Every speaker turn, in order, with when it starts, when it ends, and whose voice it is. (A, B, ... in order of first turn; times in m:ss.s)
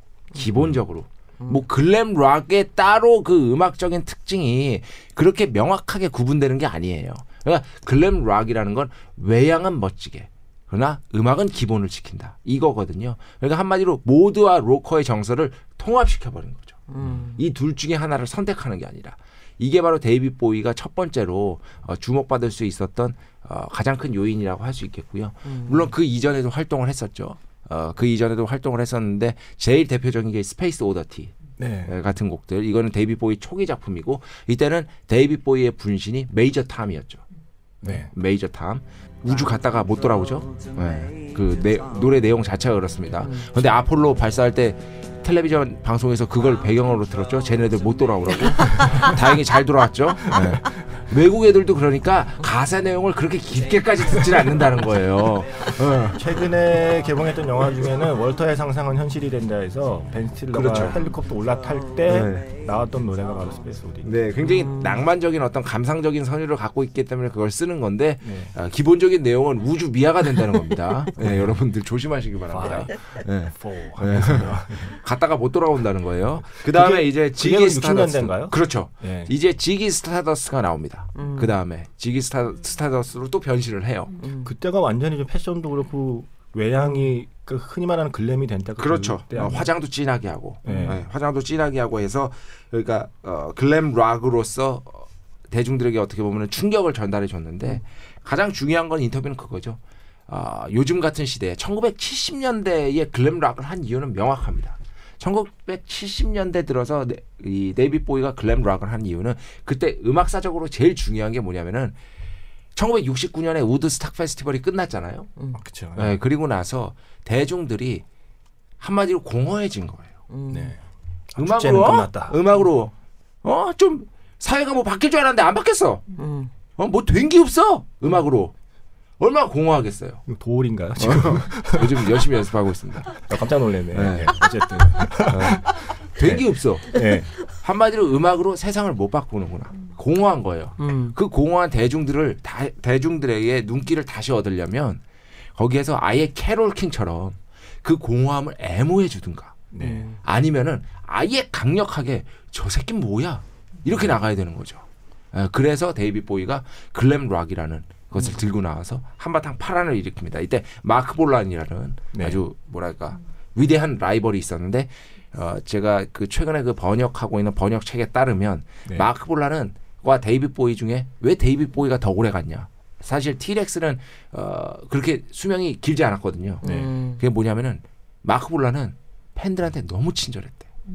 0:00.3-0:31.3 A
0:16.9-0:17.4 B
0:25.4-0:25.9 B
0:31.6-0:31.9 C
0:31.8-0:37.2 A
0:37.8-0:38.1 C
0:37.8-0:56.2 A
0:43.2-0:43.5 B
0:48.5-0:49.2 B
0:48.8-0:49.1 C
0:50.3-0:50.6 C
0:56.1-1:04.2 C
1:00.5-1:01.0 A
1:02.0-1:02.6 A
1:04.0-1:24.2 A
1:04.4-1:05.0 B
1:08.2-1:08.5 C
1:11.2-1:11.6 C
1:12.5-1:15.0 C
1:16.5-1:19.3 C
1:21.1-1:21.5 B
1:24.2-1:24.5 B
1:24.3-1:29.7 C
1:28.8-1:51.9 A
1:30.6-1:31.0 B
1:30.6-1:31.0 C
1:52.7-1:55.3 A
1:55.6-1:56.1 C
1:55.9-1:58.0 A
1:58.8-2:00.1 A
2:00.3-2:00.7 B
2:00.5-2:00.8 C
2:01.3-2:02.4 C
2:01.4-2:02.9 A
2:03.4-2:06.1 A
2:06.2-2:06.5 B
2:06.8-2:08.5 A
2:09.2-2:10.2 A
2:10.3-2:12.4 C
2:11.0-2:13.3 A
2:13.1-2:17.4 C
2:13.9-2:14.4 A
2:15.2-2:25.0 A
2:20.8-2:21.1 B
2:25.6-2:29.7 A
2:29.7-2:30.1 C
2:29.8-2:30.2 B
2:30.2-2:56.6 A
2:42.1-2:42.4 C
2:56.6-2:57.2 B
2:56.6-2:56.9 C
2:57.2-3:00.7 A